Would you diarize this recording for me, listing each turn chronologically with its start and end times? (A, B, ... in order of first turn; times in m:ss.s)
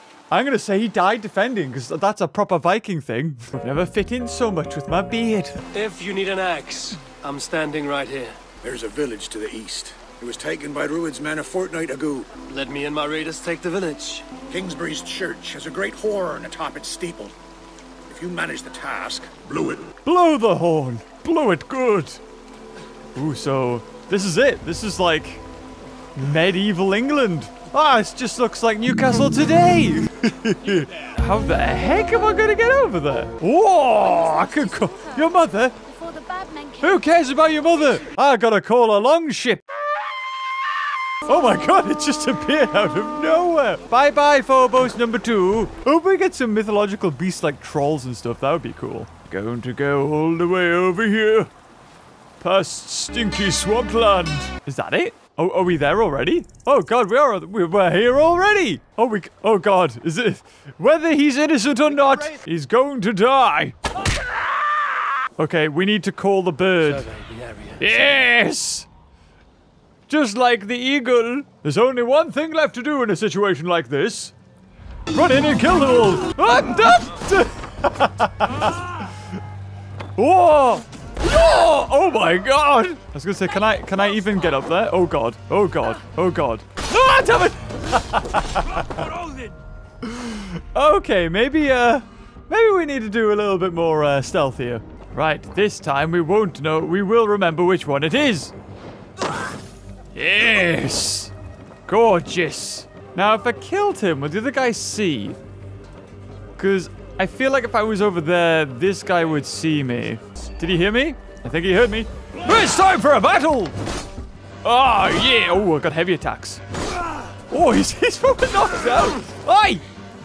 0:00.3-0:05.6 A
0:05.7-0:08.4 B
0:08.6-0:12.3 C
0:12.5-0:14.3 B
0:14.5-0:17.3 C
0:18.1-0:19.9 C
0:20.0-0:22.2 A
0:23.1-0:25.4 A
0:26.1-0:35.8 A
0:34.4-0:34.9 D
0:35.8-0:37.5 D
0:36.8-0:39.6 A
0:41.2-0:51.5 A
0:52.4-1:03.8 A
1:05.4-1:07.0 A
1:06.8-1:08.0 B
1:07.8-1:08.9 A
1:10.1-1:14.3 A
1:15.1-1:19.1 A
1:20.2-1:28.8 A
1:28.6-1:29.6 B
1:30.0-1:38.5 A
1:40.1-1:41.3 A
1:41.9-1:45.4 A
1:46.6-1:53.8 A
1:54.6-1:56.6 A
1:57.5-1:59.8 A